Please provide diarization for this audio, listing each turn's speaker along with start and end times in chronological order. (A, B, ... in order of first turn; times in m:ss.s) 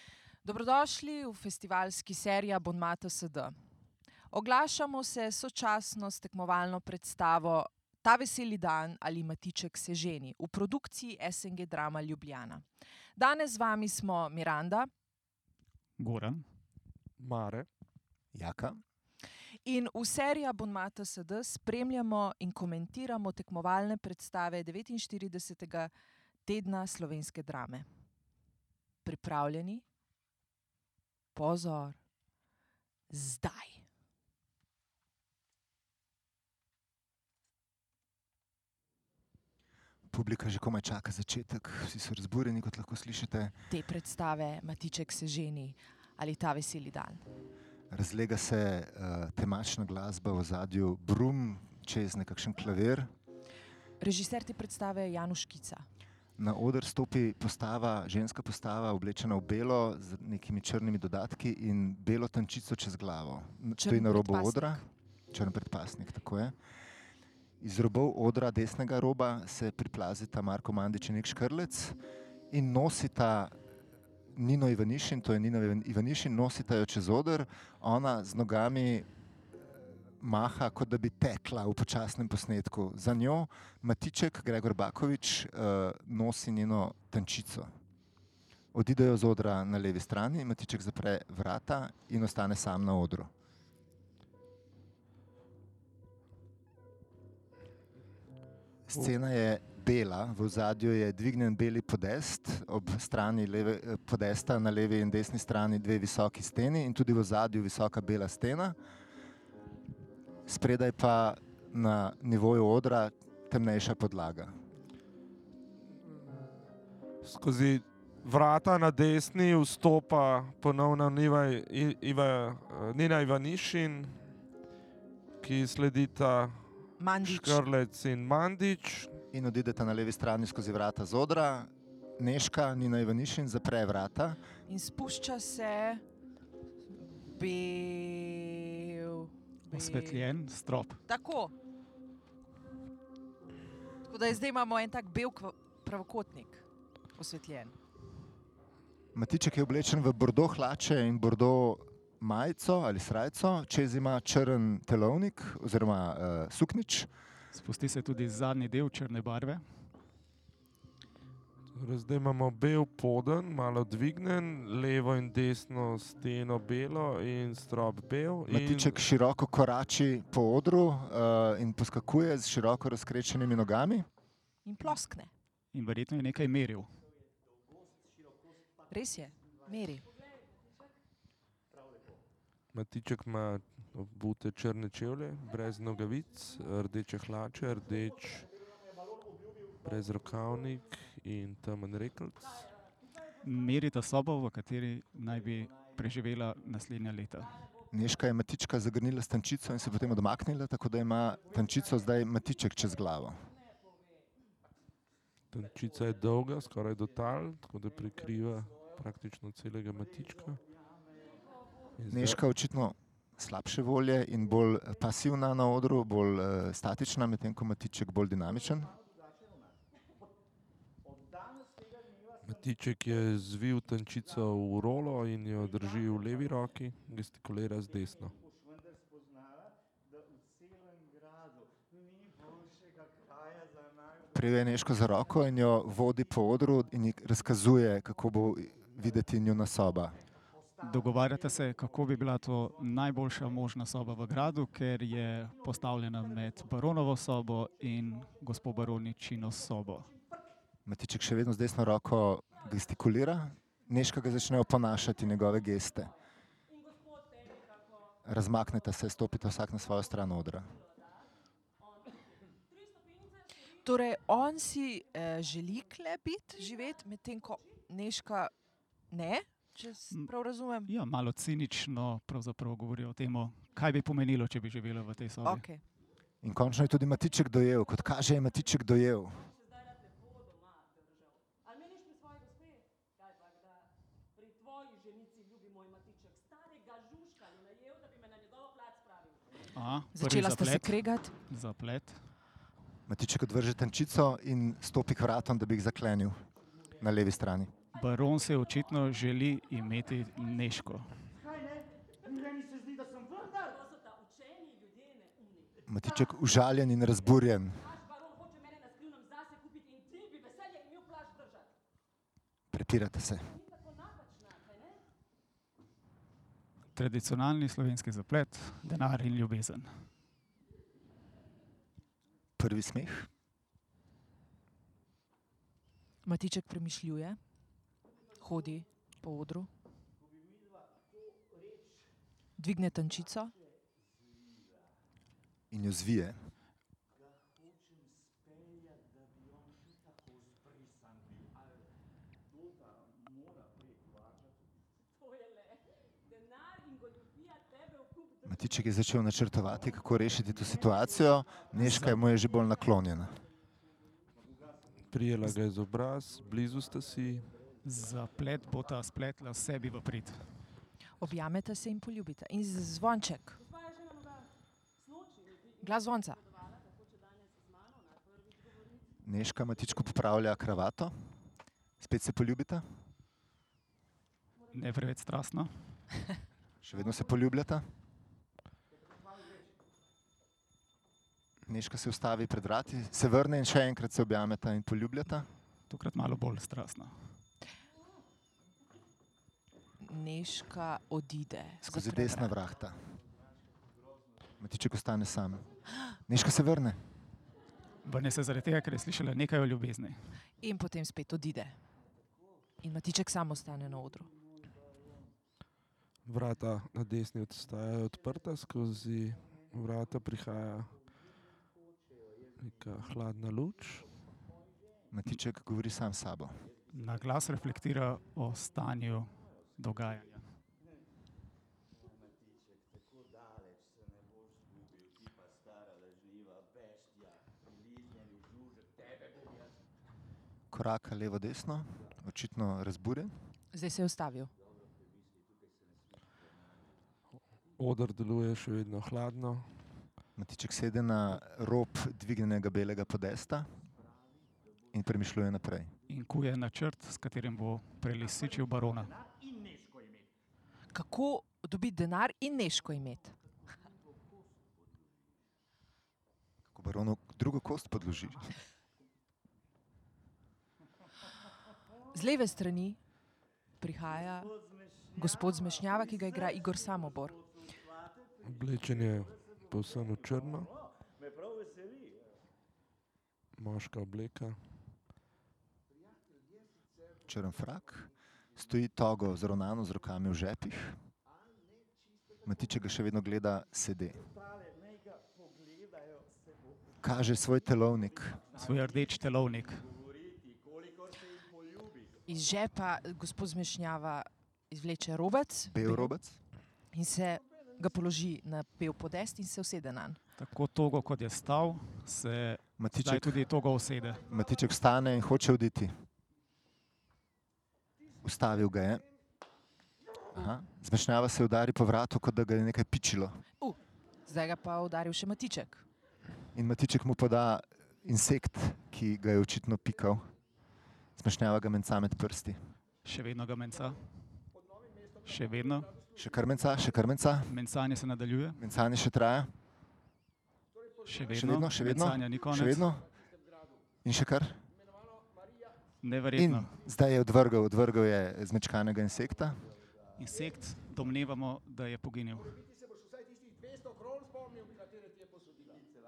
0:00.4-0:03.5 A
0:04.3-0:12.6 A
0:13.2-0:14.9 A
0:16.0-0:16.4 B
0:17.2-0:17.7 C
0:18.3-0:18.8 D
0:19.6-0:25.9 A
0:26.4-0:27.8 A
0:29.0-0:29.8 A
0:31.3-0:32.0 A
0:33.1-0:33.8 A
0:40.1-0:43.5 D
0:43.7-0:47.2 A
0:47.9-0:53.1 D
0:54.0-0:55.8 A
0:56.4-1:06.5 D
1:03.8-1:04.8 A
1:07.6-1:12.0 D
1:12.5-1:13.5 D
1:14.3-1:19.1 D
1:20.2-1:27.7 D
1:28.7-1:33.3 D
1:38.9-1:48.8 D
1:50.5-1:54.6 D
1:57.2-2:04.3 C
2:05.4-2:09.2 C
2:07.0-2:07.7 A
2:09.3-2:14.4 D
2:14.7-2:16.0 A
2:17.0-2:20.3 A
2:19.7-2:21.0 B
2:21.1-2:21.5 A
2:24.1-2:26.6 A
2:27.2-2:27.7 A
2:29.1-2:37.1 D
2:37.5-2:39.6 B
2:41.7-2:49.0 C
2:48.5-2:54.1 D
2:54.6-2:55.3 A
2:55.7-2:56.9 B
2:58.9-3:00.0 A
3:00.0-3:01.0 E
3:02.7-3:08.5 C
3:09.8-3:12.7 C
3:13.4-3:17.5 B
3:17.9-3:23.4 D
3:23.3-3:24.3 E
3:25.5-3:30.6 C
3:31.2-3:32.0 E
3:32.0-3:32.4 C
3:32.1-3:38.9 D
3:42.4-3:48.4 C
3:54.3-4:00.2 D
4:00.8-4:10.1 B
4:10.8-4:16.1 D
4:15.6-4:18.2 E
4:18.2-4:20.7 D
4:19.5-4:21.3 E
4:21.8-4:23.8 E
4:23.8-4:28.5 A
4:29.1-4:30.9 A
4:30.9-4:35.6 B
4:35.4-4:35.8 A
4:36.4-4:39.4 D
4:36.8-4:49.7 E
4:49.7-4:52.2 B
4:50.1-4:51.3 A
4:53.1-4:56.4 D
4:57.0-4:57.7 D
4:57.9-5:01.1 B
5:03.4-5:05.7 E
5:05.9-5:07.8 D
5:07.7-5:11.7 E
5:12.7-5:13.5 D
5:13.4-5:15.0 E
5:17.0-5:19.9 B
5:22.6-5:23.3 D
5:26.2-5:27.4 A
5:28.4-5:29.7 A
5:32.6-5:33.5 A
5:35.7-5:36.4 D
5:45.0-5:48.9 E
5:48.4-5:53.4 D
5:51.7-5:52.3 B
5:55.1-5:57.5 C
5:57.8-6:00.4 B
6:01.2-6:03.6 A
6:03.5-6:09.1 E
6:05.8-6:06.4 A
6:09.2-6:11.1 D
6:12.0-6:12.8 D
6:14.6-6:14.9 E
6:14.7-6:15.7 B
6:16.8-6:17.9 D
6:21.7-6:25.5 D
6:25.9-6:27.1 B
6:30.0-6:32.6 A
6:31.8-6:33.0 D
6:34.6-6:35.6 D
6:36.3-6:37.0 D
6:38.0-6:40.2 B
6:40.6-6:41.8 A
6:42.8-6:44.3 A
6:46.2-6:50.9 C
6:52.6-6:54.0 C
6:55.1-6:56.6 D
6:56.9-7:00.4 B
7:10.7-7:13.3 D
7:13.7-7:14.5 A
7:17.8-7:19.7 C
7:20.4-7:23.7 D
7:24.9-7:25.9 D
7:26.1-7:29.1 B
7:30.9-7:33.3 A
7:36.7-7:38.4 D
7:42.1-7:43.0 A
7:43.8-7:44.5 A
7:45.2-7:47.4 A
7:48.4-7:50.7 C
7:53.6-7:54.6 C
7:57.3-8:01.0 D
8:02.4-8:04.2 D
8:07.0-8:08.4 D
8:08.5-8:09.8 B
8:12.3-8:16.1 A
8:15.7-8:16.4 D
8:16.9-8:20.2 A
8:20.4-8:24.2 B
8:22.8-8:23.4 D
8:24.3-8:25.9 D
8:28.2-8:29.0 D
8:30.3-8:33.4 D
8:33.6-8:35.8 A
8:36.5-8:40.3 D
8:41.2-8:42.6 D
8:43.0-8:44.0 B
8:45.2-8:45.9 B
8:46.1-8:47.5 D
8:47.5-8:48.6 B
8:48.6-8:49.5 D
8:51.0-8:52.9 B
8:51.3-8:53.1 D
8:54.0-8:54.6 D
8:56.0-8:56.7 B
8:56.3-8:59.6 D
9:00.2-9:02.6 B